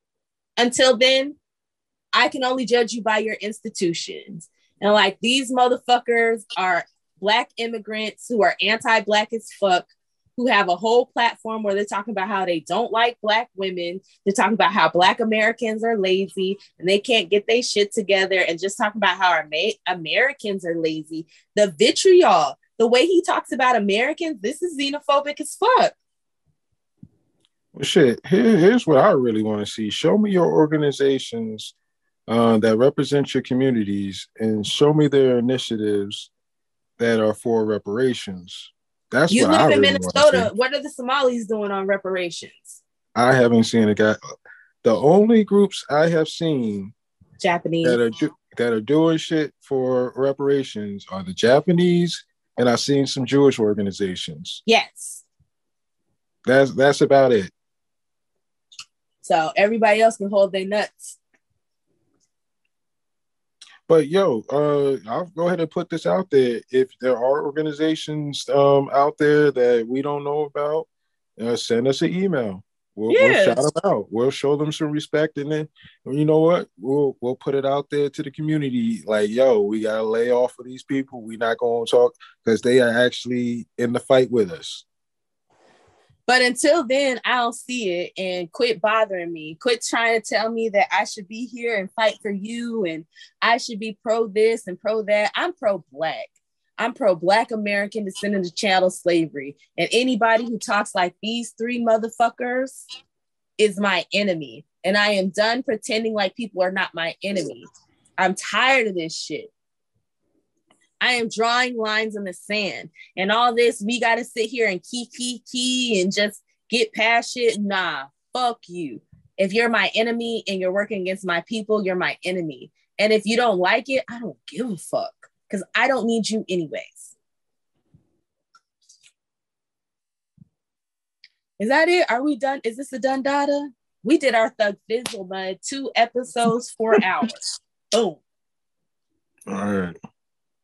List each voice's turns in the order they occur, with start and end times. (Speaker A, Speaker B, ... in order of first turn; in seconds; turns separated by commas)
Speaker A: 0.6-1.4, Speaker A: 2.1-25.9, Speaker B: 27.7-31.7, Speaker B: 32.3-36.3, Speaker B: 37.0-40.5, Speaker A: 39.3-42.8, Speaker B: 43.1-44.2, Speaker B: 44.8-46.9, Speaker A: 47.4-48.0, Speaker B: 47.8-54.6, Speaker A: 54.7-55.2, Speaker B: 56.5-57.5, Speaker A: 59.2-61.2, Speaker B: 63.9-70.9, Speaker B: 71.4-84.8, Speaker A: 73.1-73.6, Speaker A: 86.3-102.8, Speaker A: 103.6-109.5, Speaker A: 111.0-127.1, Speaker A: 131.6-137.3, Speaker A: 137.9-138.2, Speaker B: 139.5-139.9